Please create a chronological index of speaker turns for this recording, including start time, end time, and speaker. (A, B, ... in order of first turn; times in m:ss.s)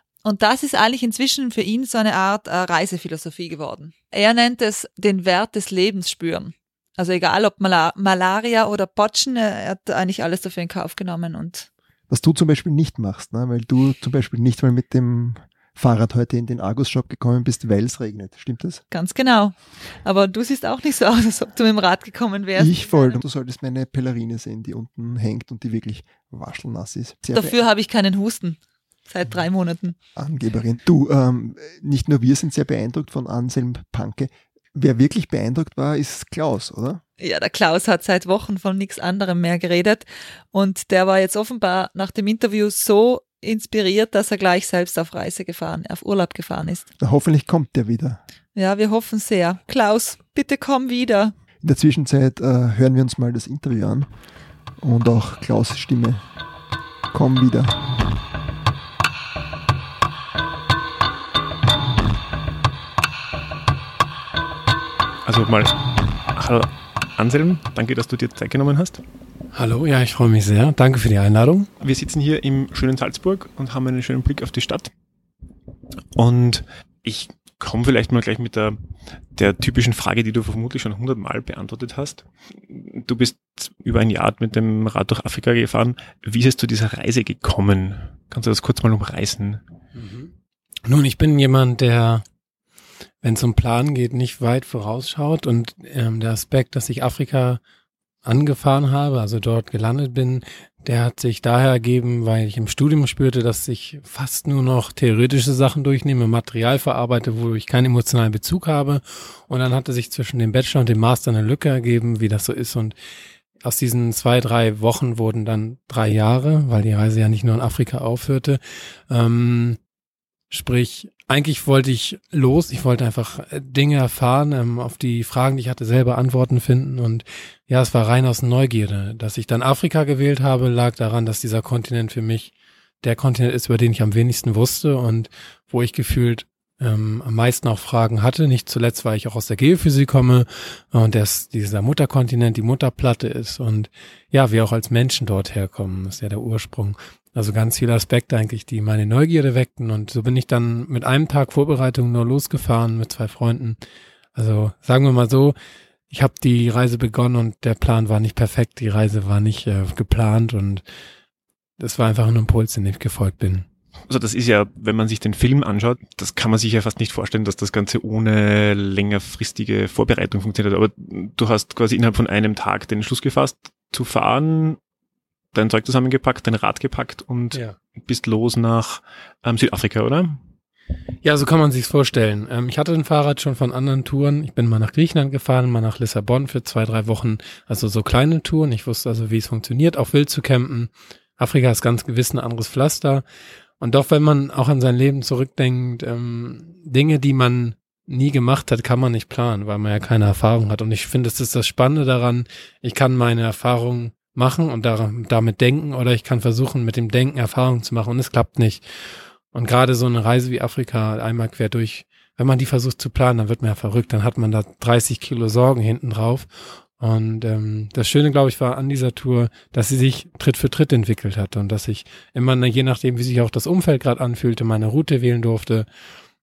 0:00.2-0:11.7 A
0:12.1-0:18.8 B
0:18.9-0:23.2 A
0:22.6-0:27.6 B
0:27.3-0:30.0 A
0:30.2-0:37.0 B
0:37.2-0:46.9 A
0:47.0-0:48.2 B
0:48.6-0:51.3 A
0:51.6-0:54.1 B
0:54.8-0:56.2 B
0:57.1-0:57.8 B
1:05.2-1:05.8 C
1:06.3-1:09.0 C
1:09.5-1:11.7 D
1:11.8-1:14.9 C
1:16.1-1:18.8 C
1:19.3-1:29.6 C
1:29.9-1:30.3 D
1:30.8-1:32.2 D
1:33.2-1:37.6 D
1:38.2-1:52.9 D
1:53.6-1:59.8 D
2:00.5-2:33.8 D
2:34.3-2:35.6 D
2:36.1-2:40.8 D
2:41.8-2:43.7 D
2:44.1-2:54.8 C
2:55.5-3:00.4 C
3:01.2-3:13.2 D
3:13.8-3:28.8 D
3:29.5-3:45.9 D